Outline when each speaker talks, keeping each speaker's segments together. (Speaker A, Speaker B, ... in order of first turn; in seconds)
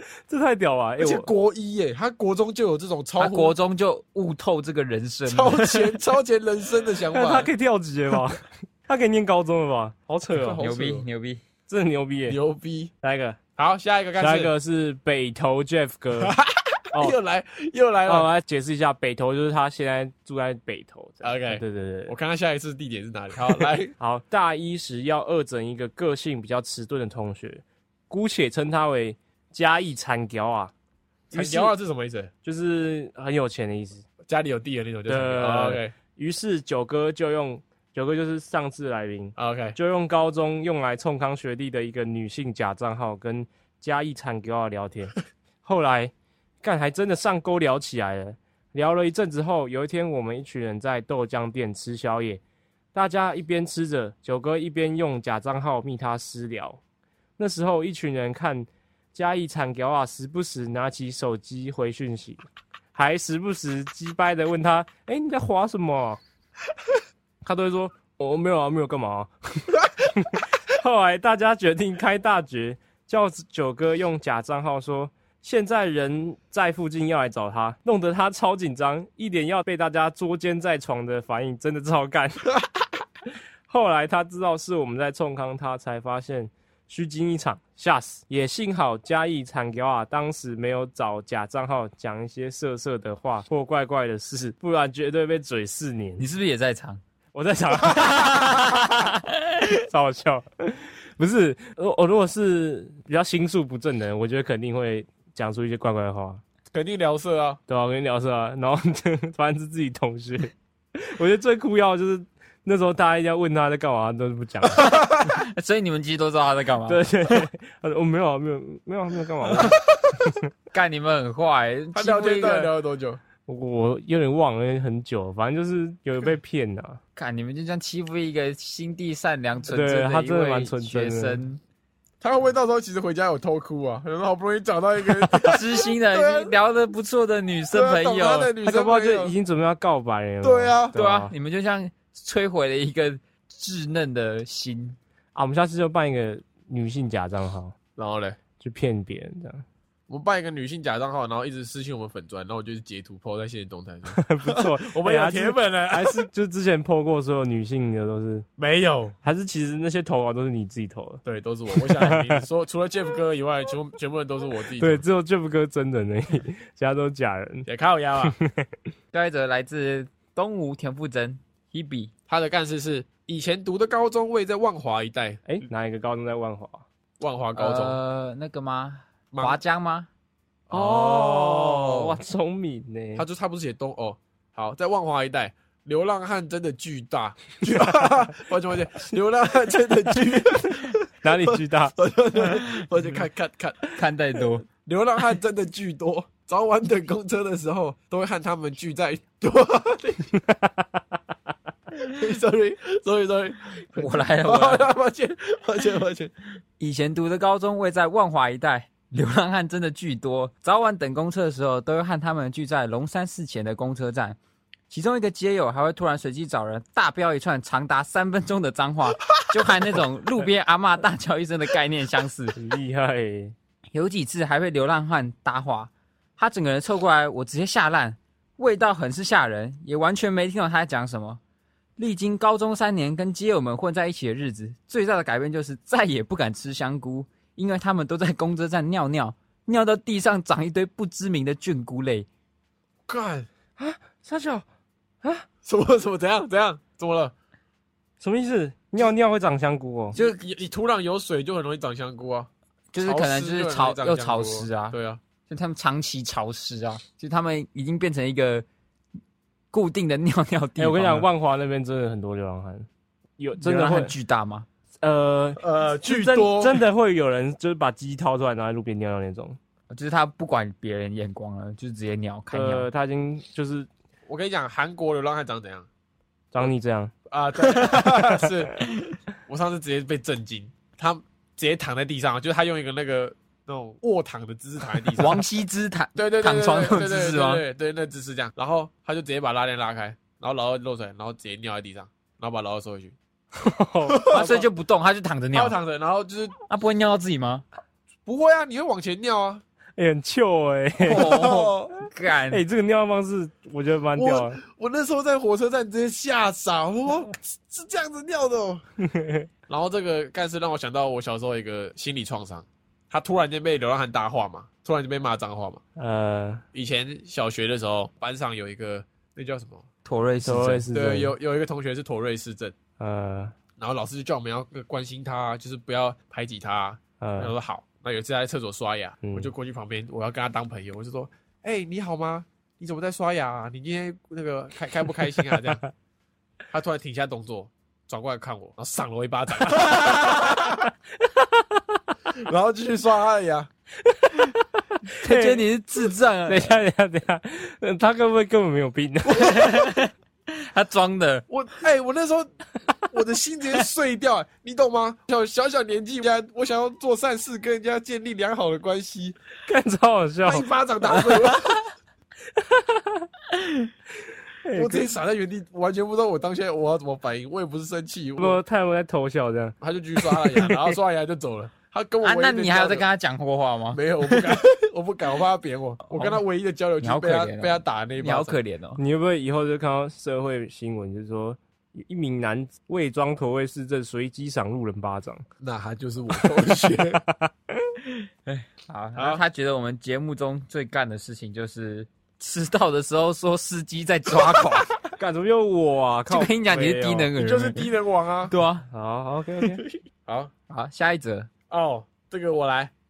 Speaker A: 0.3-1.3, 7.1-10.6, 11.7-12.4, 13.0-13.4, 14.2-16.4, 18.1-22.1, 23.6-30.7, 31.3-31.7, 32.4-34.0, 35.1-52.4, 52.9-56.8, 57.4-62.4, 62.9-66.2, 67.4-82.5, 83.7-96.3, 97.3-98.9, 99.7-106.4, 107.7-114.8, 116.9-120.4, 123.5-127.0, 129.7-131.4, 138.6-141.3, 145.3-147.7, 148.6-149.6, 154.1-158.4, 159.2-161.2, 161.7-162.4, 164.8-167.7, 168.3-168.7, 175.4-176.8, 180.7-183.2, 191.2-191.9, 200.3-200.9, 222.5-223.5, 243.8-244.6, 248.2-250.2, 260.8-262.9, 263.4-264.1, 265.0-269.6, 272.5-273.9, 276.5-277.1, 293.6-294.3, 300.0-301.5, 302.5-304.6, 309.0-309.5, 316.0-316.6, 320.4-321.3, 323.0-323.5, 327.2-327.5, 329.2-329.5, 341.2-342.0, 344.0-345.6, 346.5-349.9, 359.6-361.4, 362.5-363.3, 364.6-365.1, 368.4-370.9, 379.0-385.4, 395.2-397.3, 398.9-399.8
Speaker B: 1.0-3.5, 5.3-7.5, 10.3-11.1, 12.3-12.9, 13.6-14.5, 16.2-18.3, 21.2-23.9, 31.3-32.3, 34.3-35.9, 39.4-39.8, 106.7-107.6, 114.8-115.4, 121.9-123.2, 132.2-136.5, 137.7-139.3, 140.4-140.9, 148.0-148.4, 150.1-156.3, 158.6-159.1, 161.2-165.0, 167.7-168.3, 172.3-175.4, 177.2-178.0, 179.3-179.6, 180.7-182.2, 183.2-193.9, 194.8-200.2, 202.0-206.3, 243.1-243.5, 245.6-247.3, 250.1-252.5, 253.0-255.2, 265.6-266.8, 274.3-275.9, 277.3-285.4, 286.1-293.1, 294.1-294.7, 295.5-296.6, 298.2-299.6, 301.1-301.9, 304.2-308.8, 309.7-315.8, 316.7-319.8, 320.9-322.8, 323.8-335.8, 336.7-340.9, 342.3-343.7, 351.5-352.5, 353.0-359.4, 360.4-361.8, 364.8-368.6, 369.8-373.1, 373.9-378.6, 385.6-387.2, 389.1-389.4, 397.4-398.5, 401.7-402.9
Speaker C: 3.2-6.0, 10.6-11.4, 96.2-97.0, 97.8-99.6, 114.8-117.4, 120.7-122.7, 127.2-131.6, 135.4-138.5, 140.9-145.0, 169.1-172.1, 177.5-180.1, 193.9-194.6, 203.9-204.9, 206.8-214.4, 214.9-222.6, 223.9-231.4, 232.0-242.3, 252.9-254.9, 255.5-258.6, 259.7-261.3, 263.6-264.7, 269.9-272.9, 285.1-287.6, 294.3-295.8, 296.7-297.6, 301.0-302.6, 320.0-320.9, 345.2-346.8, 349.3-351.4, 372.2-374.6, 376.1-376.4, 377.0-379.0, 388.5-394.9, 396.3-397.9, 398.5-398.9, 400.7-401.5